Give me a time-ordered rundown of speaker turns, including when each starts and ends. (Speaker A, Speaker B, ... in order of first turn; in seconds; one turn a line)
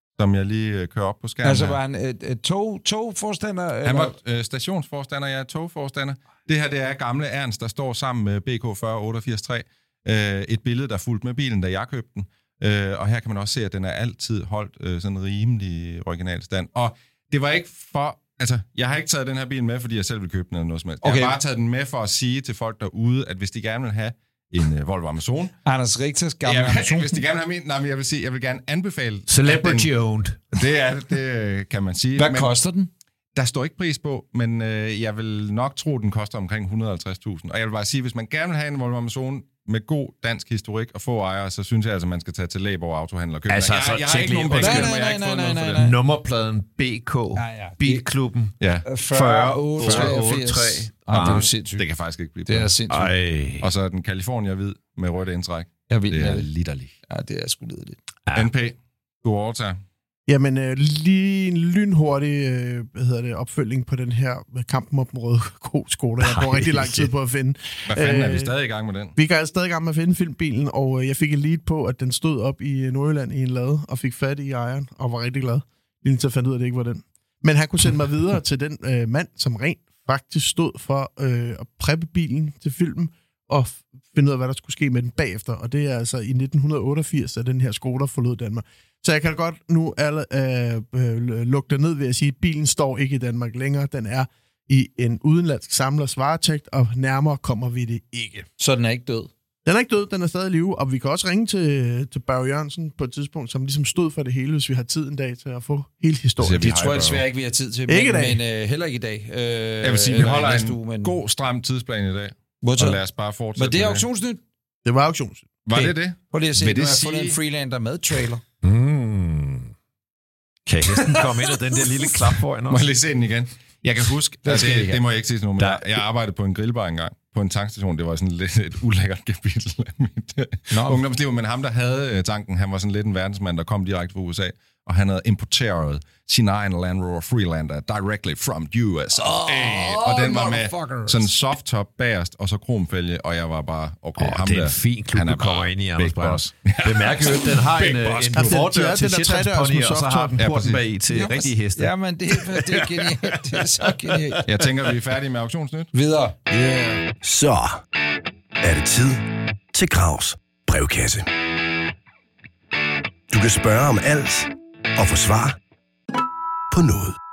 Speaker A: 0.2-1.8
Speaker B: 1.4-4.2
Speaker A: 3.8-25.5
Speaker B: 21.0-21.4
Speaker B: 25.6-27.2
Speaker A: 26.4-29.9
Speaker C: 29.3-30.6
Speaker A: 30.5-32.5
Speaker B: 32.1-32.9
Speaker A: 33.3-45.8
Speaker C: 43.5-44.9
Speaker B: 44.6-45.9
Speaker C: 45.8-48.5
Speaker B: 47.4-48.0
Speaker A: 48.6-48.9
Speaker B: 48.8-51.8
Speaker C: 49.1-51.5
Speaker A: 49.8-50.2
Speaker A: 51.1-52.7
Speaker B: 52.5-53.1
Speaker C: 52.9-53.7
Speaker A: 53.6-56.9
Speaker B: 55.9-56.5
Speaker B: 57.1-58.0
Speaker A: 58.3-59.8
Speaker D: 60.3-68.5
Speaker C: 66.2-67.1
Speaker A: 67.9-69.2
Speaker D: 69.2-98.5
Speaker B: 98.6-99.3
Speaker D: 99.7-106.7
Speaker A: 106.4-107.2
Speaker B: 106.6-111.2
Speaker D: 107.9-108.4
Speaker A: 109.8-114.0
Speaker B: 112.6-113.0
Speaker B: 113.5-114.4
Speaker D: 114.8-115.5
Speaker A: 115.7-117.4
Speaker B: 115.7-118.4
Speaker C: 118.6-119.7
Speaker C: 120.7-122.9
Speaker B: 120.9-121.8
Speaker A: 122.7-148.6
Speaker B: 124.4-125.0
Speaker C: 125.6-126.0
Speaker B: 130.7-131.0
Speaker B: 139.1-141.3
Speaker C: 144.2-151.9
Speaker D: 148.3-150.3
Speaker A: 150.4-150.8
Speaker B: 151.1-154.4
Speaker A: 154.4-155.9
Speaker B: 155.9-156.5
Speaker E: 157.2-157.8
Speaker E: 158.6-161.3
Speaker E: 163.3-165.6
Speaker E: 166.7-167.2